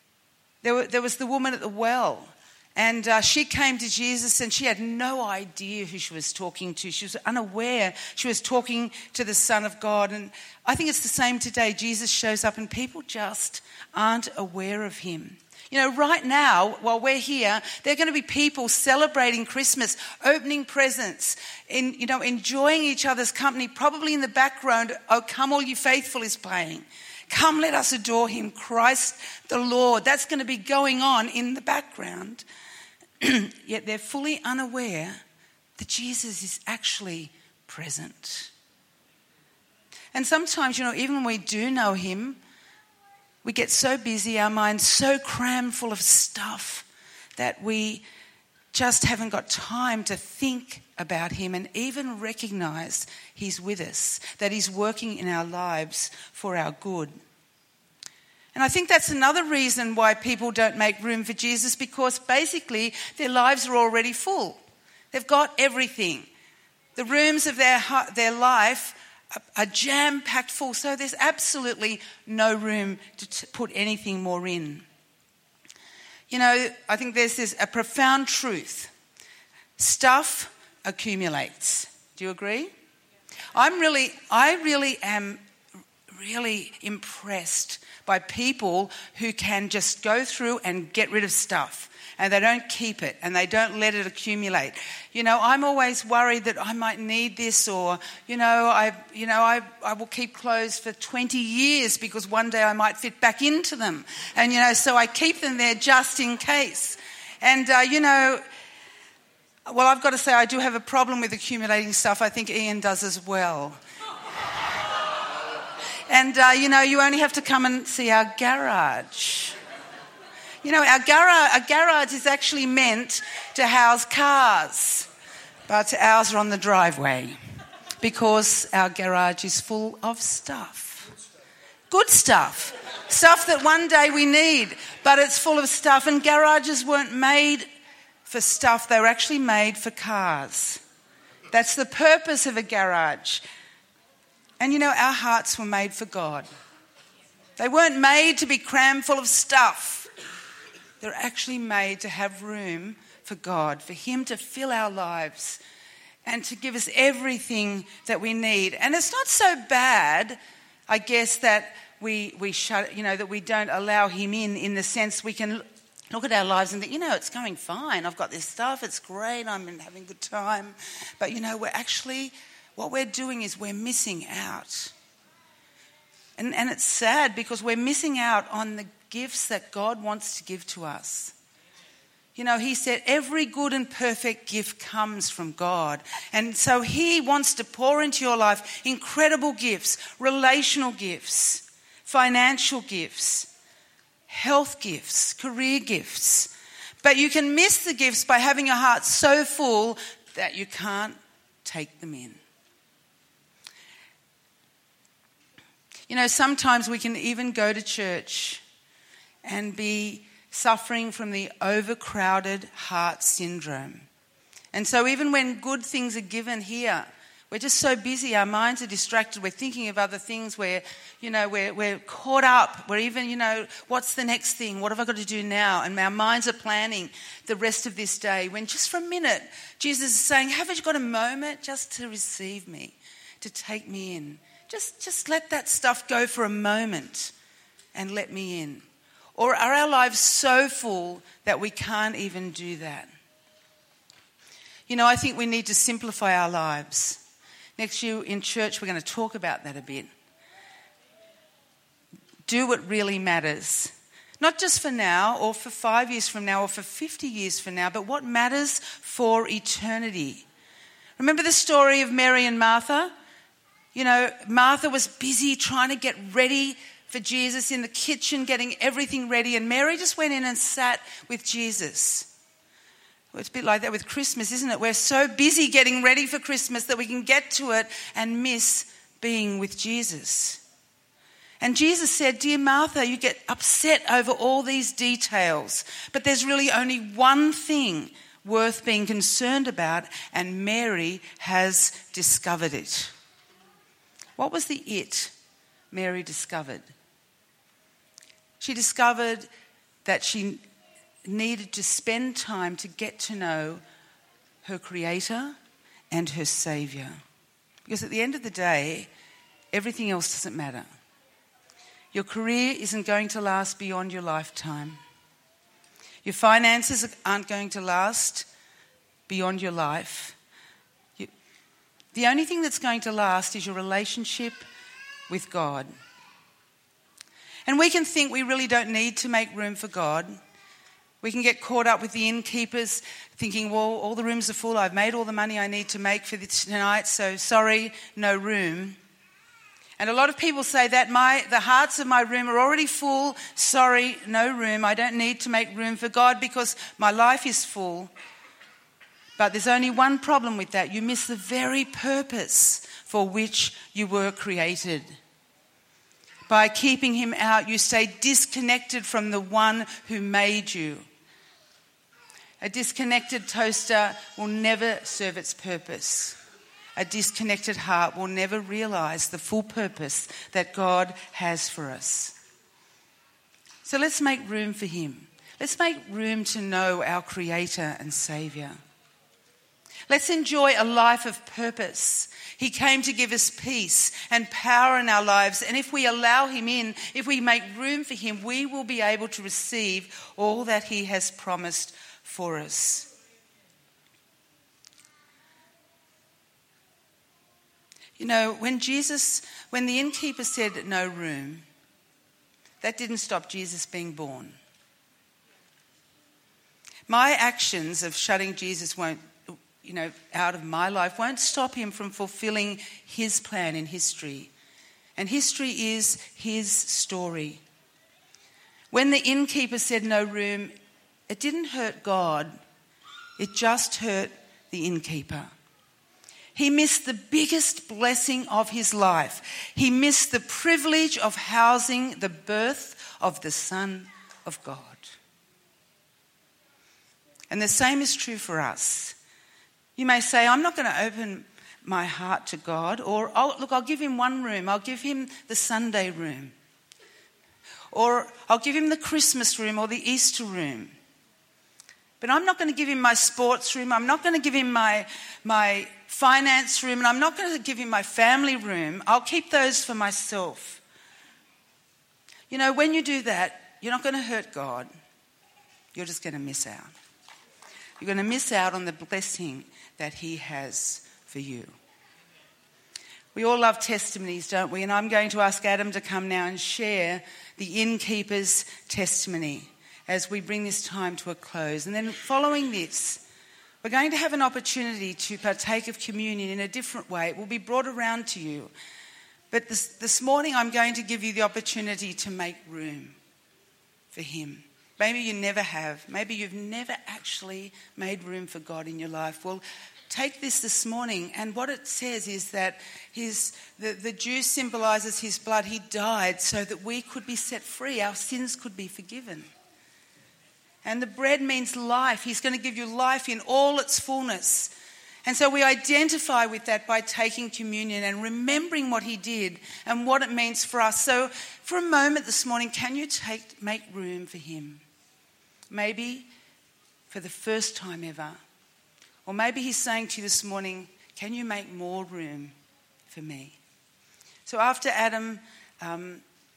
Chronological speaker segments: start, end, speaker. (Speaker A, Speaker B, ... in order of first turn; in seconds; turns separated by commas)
Speaker A: 0.6-32.5, Speaker A: 33.2-35.2, Speaker A: 35.8-38.5, Speaker A: 40.1-42.4, Speaker A: 43.4-46.9, Speaker A: 47.4-48.0, Speaker A: 48.7-57.1, Speaker A: 58.5-64.6, Speaker A: 65.1-66.3, Speaker A: 67.0-74.8, Speaker A: 76.3-78.9, Speaker A: 79.8-82.7, Speaker A: 83.5-85.4, Speaker A: 86.1-108.4, Speaker A: 109.7-113.8, Speaker A: 116.1-119.5, Speaker A: 120.6-125.1, Speaker A: 125.7-127.4, Speaker A: 128.0-131.1, Speaker A: 131.9-137.7, Speaker A: 138.3-140.8, Speaker A: 141.5-143.4, Speaker A: 144.6-146.5, Speaker A: 147.6-150.1, Speaker A: 151.0-155.6, Speaker A: 156.2-174.9, Speaker A: 176.4-181.3, Speaker A: 182.4-193.5, Speaker A: 194.3-196.5, Speaker A: 197.0-202.4, Speaker A: 206.1-208.6, Speaker A: 209.4-214.1, Speaker A: 214.7-237.3, Speaker A: 237.9-243.1, Speaker A: 244.9-247.2, Speaker A: 247.8-250.1, Speaker A: 252.5-260.4, Speaker A: 261.2-263.1, Speaker A: 263.9-272.3, Speaker A: 273.3-280.6, Speaker A: 281.6-293.1, Speaker A: 294.4-295.3, Speaker A: 295.9-296.9, Speaker A: 298.6-299.5, Speaker A: 300.1-300.6, Speaker A: 301.2-303.8, Speaker A: 304.6-305.6, Speaker A: 306.1-307.2, Speaker A: 307.9-309.1, Speaker A: 309.7-310.9, Speaker A: 312.1-315.0, Speaker A: 316.2-318.5, Speaker A: 319.3-320.4, Speaker A: 322.1-324.6, Speaker A: 325.3-325.9, Speaker A: 327.7-330.4, Speaker A: 331.2-339.0, Speaker A: 340.0-348.1, Speaker A: 349.4-355.1, Speaker A: 356.5-361.1, Speaker A: 362.6-366.4, Speaker A: 367.0-372.4, Speaker A: 373.9-378.8, Speaker A: 380.1-393.1, Speaker A: 398.2-401.6, Speaker A: 402.8-404.6, Speaker A: 407.1-414.5, Speaker A: 415.2-417.6, Speaker A: 418.9-420.7, Speaker A: 421.3-422.6, Speaker A: 423.4-425.5, Speaker A: 426.6-435.1, Speaker A: 437.5-439.2, Speaker A: 440.0-446.5, Speaker A: 447.9-450.9, Speaker A: 452.2-460.8, Speaker A: 462.5-464.9, Speaker A: 465.9-466.9, Speaker A: 468.0-471.8, Speaker A: 473.3-483.2, Speaker A: 483.8-488.7, Speaker A: 489.5-493.2, Speaker A: 494.1-509.5, Speaker A: 510.8-514.7, Speaker A: 515.2-524.8, Speaker A: 525.7-526.3, Speaker A: 527.1-528.4, Speaker A: 529.2-532.5, Speaker A: 533.1-533.6, Speaker A: 534.5-536.2